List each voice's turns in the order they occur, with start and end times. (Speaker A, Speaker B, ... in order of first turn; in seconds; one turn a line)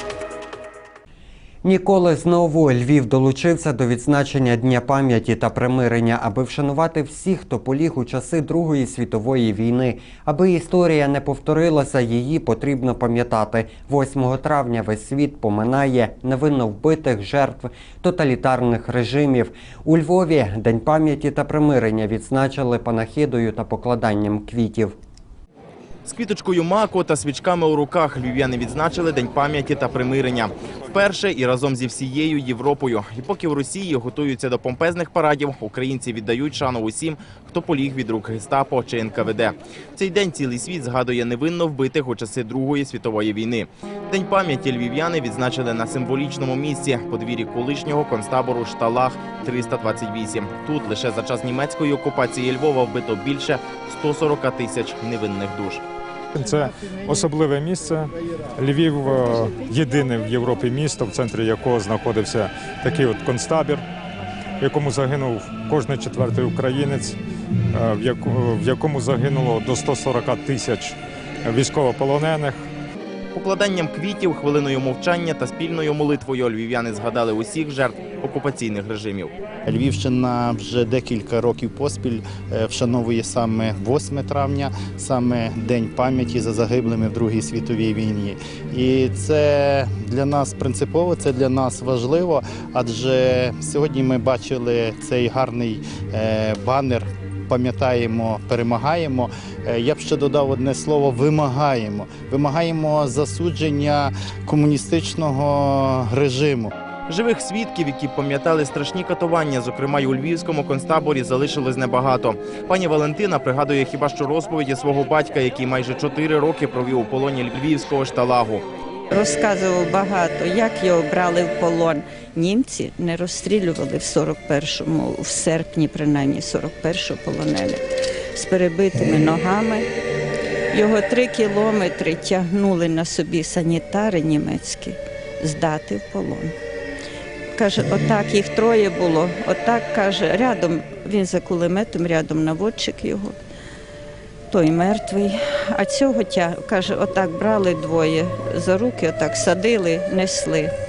Speaker A: 1.6-24.9
Speaker B: 26.1-55.8
Speaker C: 56.3-63.8
Speaker C: 64.6-67.2
Speaker C: 67.7-72.7
Speaker B: 73.4-79.3
Speaker D: 79.7-106.7
Speaker B: 107.1-118.6
Speaker E: 119.1-129.9
Speaker E: 130.7-136.5
Speaker E: 137.6-143.4
Speaker E: 144.5-150.7